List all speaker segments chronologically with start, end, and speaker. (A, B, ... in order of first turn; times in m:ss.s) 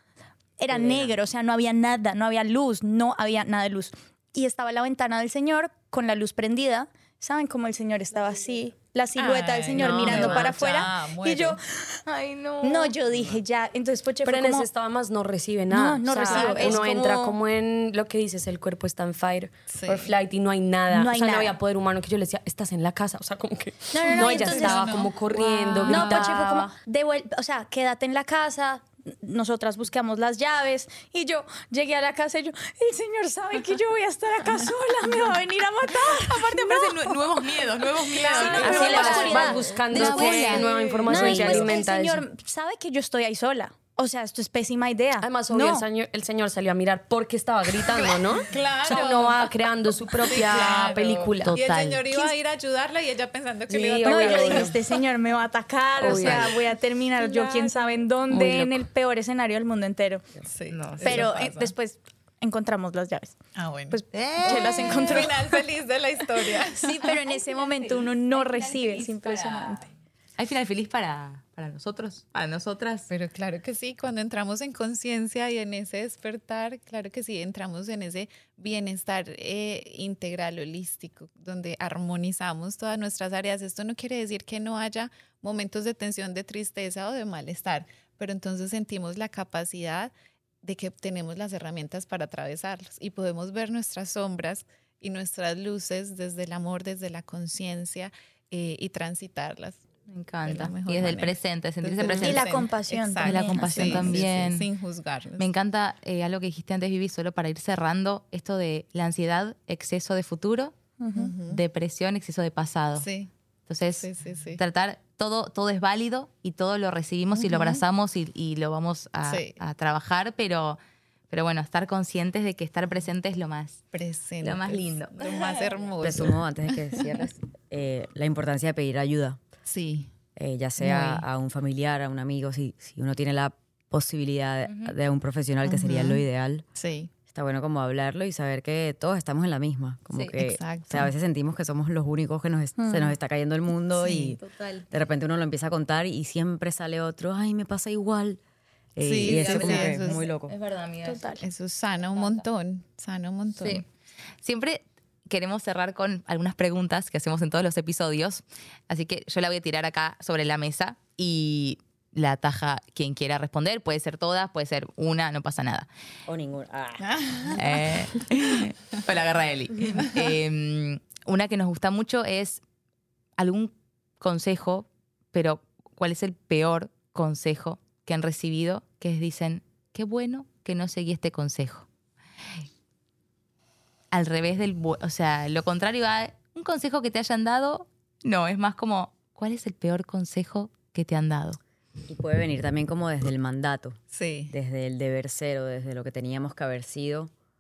0:00.6-0:12.0 A
0:09.2-0:11.6 B
0:09.7-0:10.5 C
0:10.0-0:10.5 D
0:12.1-0:12.9 C
0:12.6-0:14.7 A
0:14.2-0:26.7 E
0:15.7-0:17.4 A
0:16.3-0:16.9 B
0:19.7-0:20.1 B
0:20.9-0:21.5 A
0:23.9-0:25.0 A
0:24.0-0:26.4 B
0:25.8-0:37.2 A
0:35.9-0:40.7 C
0:38.1-0:41.7 B
0:38.2-0:45.9 A
0:38.4-0:42.2 E
0:45.2-0:51.6 E
0:47.9-0:49.5 B
0:50.3-0:54.8 B
0:51.4-0:52.0 C
0:53.7-0:54.8 E
0:54.0-1:00.2 A
0:56.0-0:56.5 E
0:56.0-0:56.6 B
0:57.2-0:58.0 B
0:58.3-0:58.8 C
1:00.4-1:01.7 B
1:00.7-1:01.3 C
1:01.0-1:03.4 A
1:03.6-1:07.1 B
1:03.9-1:05.6 A
1:04.1-1:05.3 C
1:06.8-1:09.8 A
1:08.3-1:09.8 D
1:10.4-1:13.1 C
1:13.1-1:39.8 B
1:40.1-1:42.7 C
1:40.5-1:45.5 B
1:42.1-1:44.2 A
1:43.2-1:44.7 C
1:45.4-1:50.7 C
1:51.0-1:51.3 A
1:51.2-1:51.6 B
1:51.5-1:53.1 C
1:53.0-1:53.3 B
1:53.7-2:00.8 C
1:54.0-1:54.6 B
1:57.4-1:57.8 B
1:59.2-1:59.5 B
2:01.3-2:03.8 C
2:03.9-2:07.0 B
2:04.4-2:05.7 C
2:06.0-2:09.4 D
2:09.7-2:10.1 B
2:10.4-2:16.6 D
2:10.8-2:11.2 B
2:14.7-2:15.0 C
2:15.6-2:16.2 B
2:16.8-2:17.1 B
2:17.3-2:28.4 D
2:20.1-2:20.4 C
2:20.4-2:21.1 B
2:22.8-2:23.1 A
2:24.0-2:24.4 B
2:24.4-2:24.9 C
2:29.0-2:30.5 D
2:29.0-2:30.2 B
2:29.2-2:31.2 C
2:31.0-2:31.4 A
2:31.4-2:33.8 B
2:32.2-2:32.5 C
2:33.6-2:33.9 C
2:34.4-2:45.9 C
2:46.3-2:47.6 D
2:47.0-2:47.8 B
2:47.6-2:52.6 C
2:53.4-3:01.9 C
3:04.1-3:11.6 C
3:12.1-3:14.0 D
3:14.1-3:14.5 B
3:14.5-3:17.3 D